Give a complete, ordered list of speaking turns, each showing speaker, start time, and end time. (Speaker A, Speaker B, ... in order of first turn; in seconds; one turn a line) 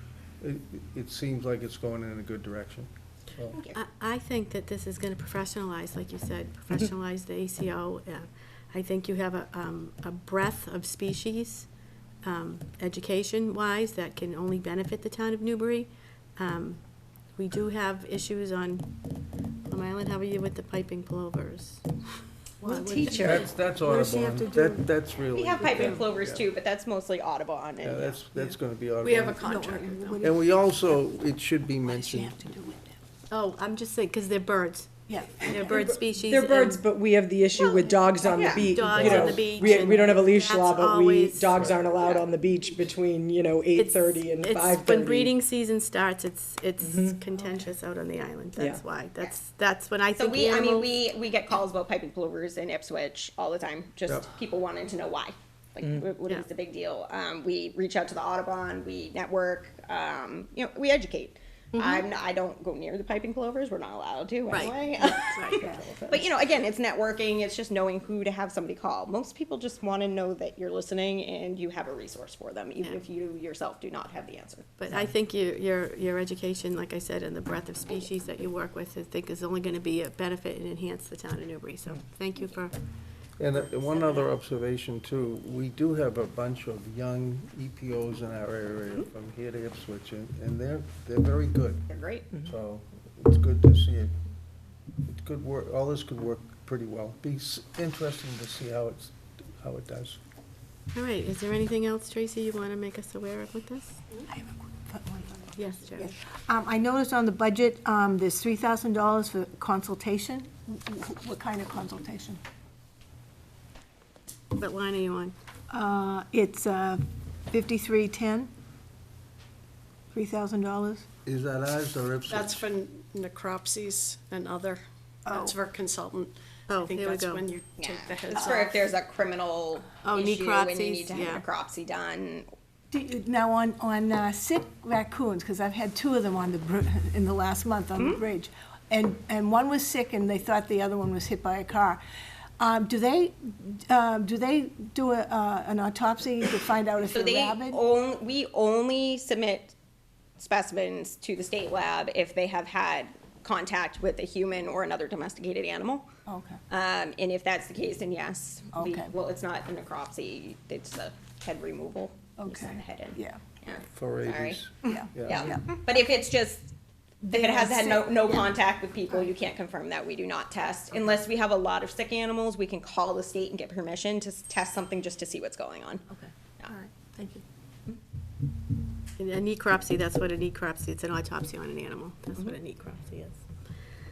Speaker A: 0.4-3.5
Speaker B: 3.5-3.8
Speaker C: 3.7-11.7
Speaker C: 12.2-16.8
Speaker C: 17.4-18.9
Speaker C: 19.7-21.8
Speaker D: 22.6-24.9
Speaker C: 22.7-23.3
Speaker B: 23.1-23.3
Speaker A: 23.1-26.4
Speaker B: 25.3-28.2
Speaker A: 27.8-32.3
Speaker E: 29.0-30.2
Speaker D: 29.4-30.8
Speaker D: 31.9-33.0
Speaker C: 33.3-36.8
Speaker D: 35.1-35.9
Speaker F: 36.2-45.3
Speaker C: 37.7-41.6
Speaker B: 38.3-38.7
Speaker A: 38.9-39.5
Speaker B: 42.0-42.2
Speaker C: 43.8-50.9
Speaker F: 46.8-47.1
Speaker F: 48.5-48.8
Speaker B: 50.2-74.7
Speaker C: 64.5-65.6
Speaker D: 65.6-66.2
Speaker C: 74.8-82.7
Speaker A: 83.4-91.8
Speaker B: 91.9-92.3
Speaker A: 92.4-94.1
Speaker A: 95.1-100.2
Speaker C: 100.9-104.0
Speaker D: 104.3-112.4
Speaker C: 105.5-106.1
Speaker C: 114.5-115.3
Speaker D: 115.7-118.5
Speaker D: 120.1-121.0
Speaker A: 121.2-122.6
Speaker E: 122.3-128.8
Speaker D: 125.3-125.5
Speaker C: 126.7-127.5
Speaker B: 127.8-132.5
Speaker C: 130.0-131.4
Speaker D: 132.9-142.0
Speaker D: 142.6-147.8
Speaker B: 147.1-149.7
Speaker B: 150.4-156.1
Speaker D: 156.2-156.6
Speaker B: 156.7-176.0
Speaker D: 158.7-159.1
Speaker D: 162.4-163.4
Speaker A: 163.9-165.6
Speaker D: 164.8-165.6
Speaker D: 167.3-168.5
Speaker D: 176.7-177.4
Speaker C: 179.2-183.4